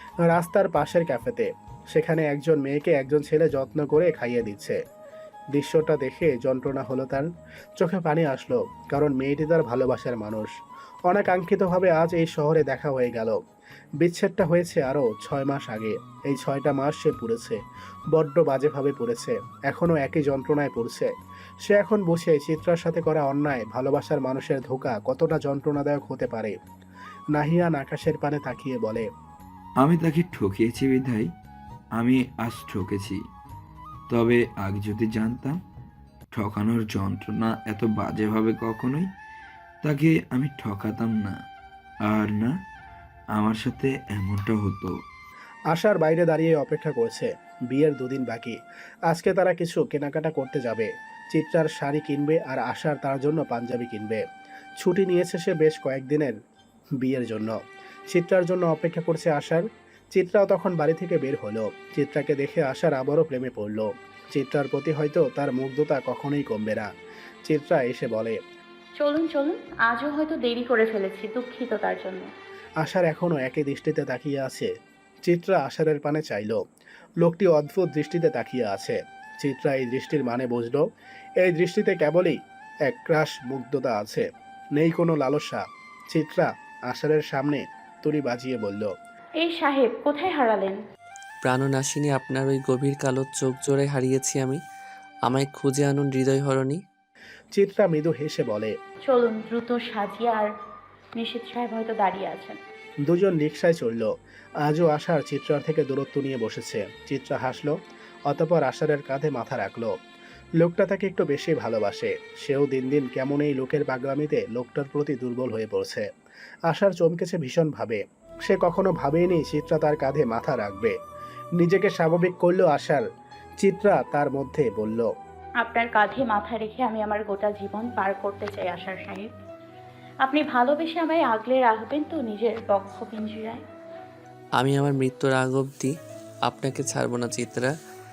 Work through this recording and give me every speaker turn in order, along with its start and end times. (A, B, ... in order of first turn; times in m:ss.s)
0:00.2-0:04.8 A
0:05.5-0:10.5 A
0:11.1-0:13.4 A
0:14.0-0:17.6 A
0:18.1-0:21.1 A
0:21.7-0:26.6 A
0:27.4-0:29.1 A
0:29.8-0:31.3 B
0:31.9-0:33.2 B
0:34.1-0:35.6 B
0:36.3-0:39.1 B
0:39.8-0:41.4 B
0:42.0-0:42.5 B
0:43.3-0:44.9 B
0:45.7-0:48.6 A
0:49.1-0:54.2 A
0:54.8-0:56.3 A
0:57.0-0:57.6 A
0:58.1-1:06.9 A
1:07.5-1:08.4 A
1:09.0-1:12.3 C
1:12.8-1:14.7 A
1:15.3-1:16.6 A
1:17.2-1:20.8 A
1:21.4-1:24.2 A
1:24.8-1:28.9 A
1:29.4-1:30.8 C
1:31.4-1:34.6 D
1:35.3-1:36.8 D
1:37.6-1:38.7 A
1:39.1-1:40.5 C
1:41.2-1:42.6 C
1:43.0-1:44.1 A
1:44.6-1:47.7 A
1:48.3-1:49.9 A
1:50.6-1:56.1 A
1:56.7-2:01.0 A
2:01.6-2:03.0 A
2:03.6-2:05.1 A
2:05.6-2:09.3 C
2:10.2-2:13.6 C
2:14.6-2:15.9 D
2:16.5-2:17.7 D